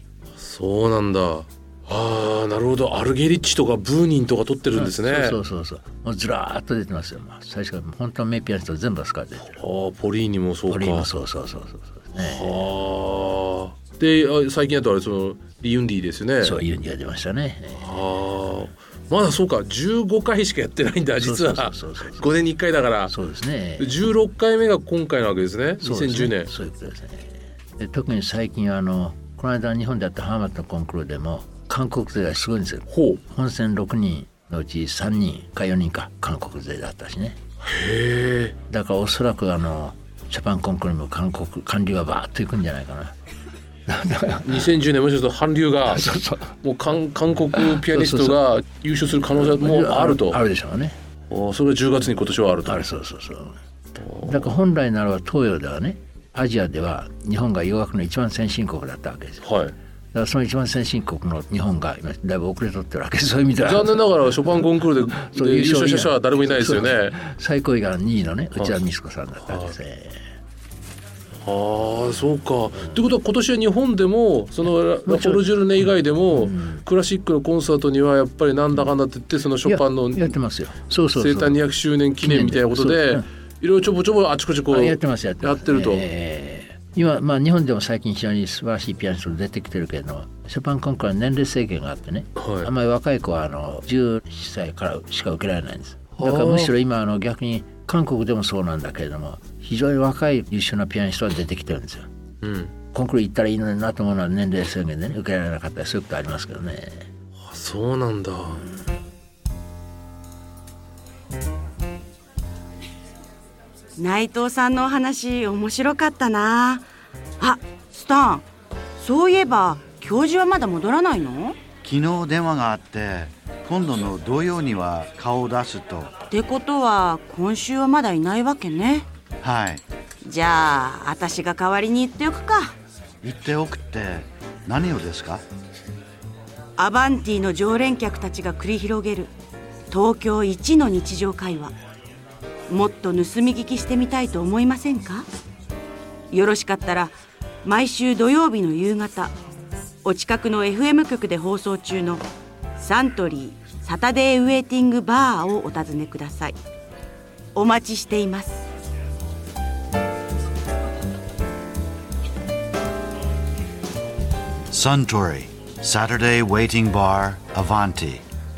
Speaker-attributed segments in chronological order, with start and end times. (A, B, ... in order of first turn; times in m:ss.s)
0:00.4-0:05.4 A
0:04.7-0:09.6 B
0:09.4-0:11.1 A
0:10.7-0:12.7 B
0:12.2-0:16.6 A
0:16.4-0:18.0 B
0:17.8-0:23.2 A
0:21.2-0:22.4 B
0:23.1-0:24.0 B
0:23.8-0:26.5 A
0:25.8-0:37.4 B
0:32.9-0:33.2 A
0:37.6-0:38.6 A
0:38.7-0:43.1 B
0:43.9-0:44.7 B
0:44.4-0:46.1 A
0:45.8-0:46.5 B
0:46.6-0:50.4 A
0:47.5-0:48.4 B
0:49.4-0:51.0 B
0:51.3-0:52.8 A
0:52.6-0:53.6 B
0:54.0-0:54.5 A
0:54.2-0:59.4 B
0:59.4-0:59.7 A
1:00.1-1:04.1 B
1:03.6-1:07.2 A
1:05.2-1:10.2 B
1:11.4-1:20.4 A
1:15.0-1:16.8 B
1:19.6-1:21.6 B
1:21.1-1:26.1 A
1:22.2-1:23.3 B
1:24.7-1:42.1 B
1:32.4-1:32.7 A
1:36.1-1:36.7 A
1:42.4-1:42.7 A
1:42.9-1:47.1 B
1:47.4-1:48.6 A
1:54.0-1:56.8 C
1:57.4-2:01.6 C
2:01.8-2:06.1 D
2:06.3-2:09.1 C
2:09.4-2:09.8 D
2:10.2-2:12.8 C
2:13.2-2:15.4 D
2:16.8-2:19.3 C
2:19.9-2:21.7 C
2:22.7-2:25.3 C
2:26.3-2:29.3 C
2:30.0-2:32.2 C
2:32.8-2:36.6 C
2:37.5-2:38.6 C
2:44.7-2:48.2 D